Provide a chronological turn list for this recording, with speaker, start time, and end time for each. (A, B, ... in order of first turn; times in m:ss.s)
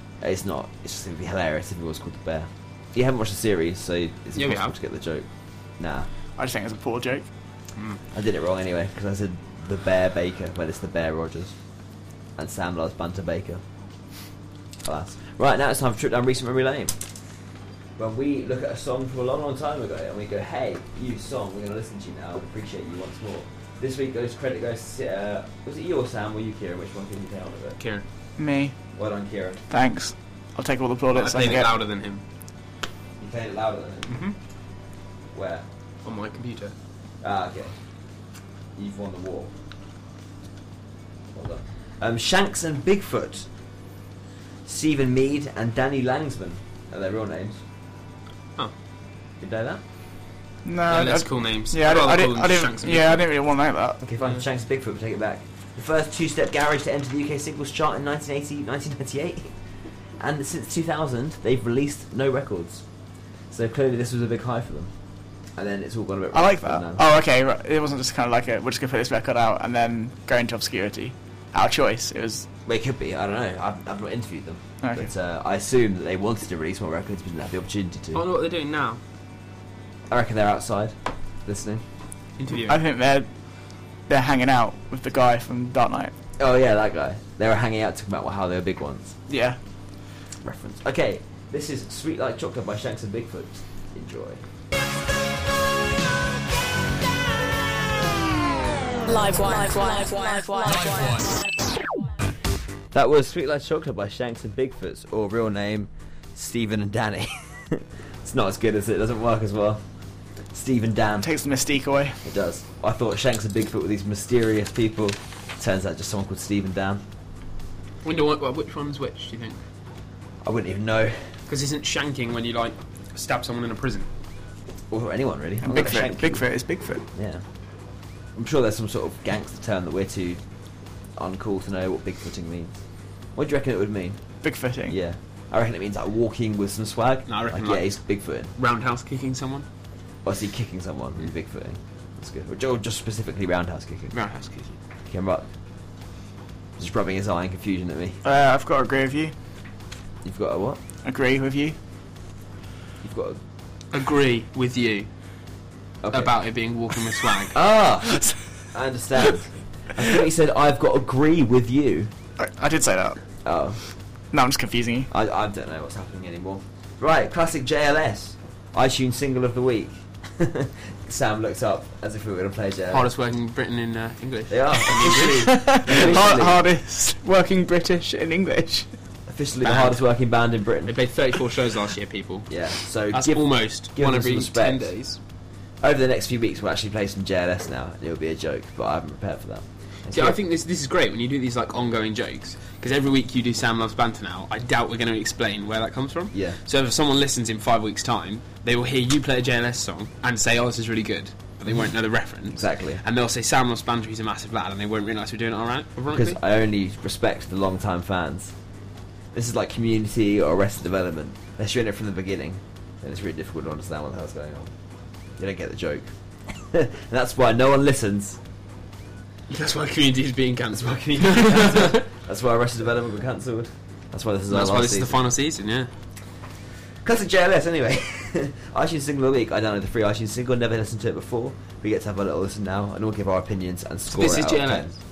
0:00.2-0:05.3 A
0:04.4-0:04.7 B
0:05.8-0:06.1 A
0:06.4-0:07.3 C
0:08.1-0:11.6 A
0:12.4-0:13.6 A
0:14.8-0:17.0 A
0:18.0-0:27.8 A
0:27.8-0:28.0 B
0:28.4-0:28.8 C
0:28.9-0:29.6 A
0:29.7-0:31.7 C
0:31.1-0:32.2 B
0:33.2-0:34.3 A
0:34.1-0:34.4 B
0:35.3-0:35.7 A
0:36.0-0:36.7 B
0:37.2-0:37.8 A
0:38.8-0:39.5 A
0:41.3-0:43.5 A
0:44.6-0:47.6 A
0:49.4-0:49.8 A
0:50.6-0:54.0 C
0:50.9-0:53.2 B
0:54.0-0:59.5 A
1:00.2-1:02.8 A
1:03.5-1:04.9 A
1:05.6-1:07.0 A
1:06.3-1:12.5 C
1:12.7-1:18.3 A
1:14.8-1:15.1 C
1:18.1-1:19.0 B
1:20.1-1:21.8 A
1:22.4-1:22.8 B
1:22.5-1:23.3 C
1:24.1-1:26.1 C
1:26.4-1:29.2 A
1:29.3-1:29.6 C
1:30.4-1:34.4 A
1:39.0-1:39.5 A
1:39.1-1:41.7 D
1:42.9-1:49.8 A
1:50.5-1:51.3 A
1:51.2-1:52.2 C
1:52.2-1:57.0 A
1:58.0-1:59.6 B
2:00.4-2:01.3 A
2:01.5-2:04.1 B
2:04.9-2:06.5 A
2:05.6-2:07.0 C
2:07.2-2:07.4 A
2:08.4-2:10.4 A
2:11.2-2:12.8 A
2:13.4-2:14.2 A
2:14.4-2:15.0 C
2:14.9-2:18.5 A
2:17.3-2:17.9 B
2:18.6-2:19.7 B
2:20.2-2:24.2 A
2:24.1-2:24.8 B
2:25.1-2:25.5 A
2:26.8-2:28.2 A
2:28.2-2:29.3 C
2:30.2-2:30.8 A
2:31.0-2:31.8 C
2:33.0-2:33.4 A
2:33.9-2:35.1 B
2:36.0-2:36.4 A
2:36.1-2:37.6 B
2:37.5-2:42.1 A
2:42.4-2:43.2 C
2:43.4-2:43.8 A
2:44.3-2:45.1 C
2:45.1-2:53.1 A
2:52.9-2:56.4 B
2:54.5-2:56.7 A
2:55.2-2:58.9 C
2:59.3-3:01.0 A
2:59.6-3:00.0 B
3:00.8-3:02.5 B
3:02.5-3:04.9 A
3:03.1-3:05.2 B
3:05.8-3:10.4 A
3:10.1-3:26.4 B
3:16.3-3:16.6 A
3:22.5-3:23.0 A
3:26.1-3:28.5 A
3:29.3-3:34.7 A
3:35.4-3:38.4 A
3:39.5-3:42.1 B
3:40.8-3:45.2 A
3:44.5-3:45.9 B
3:47.0-3:55.0 A
3:54.1-3:54.9 B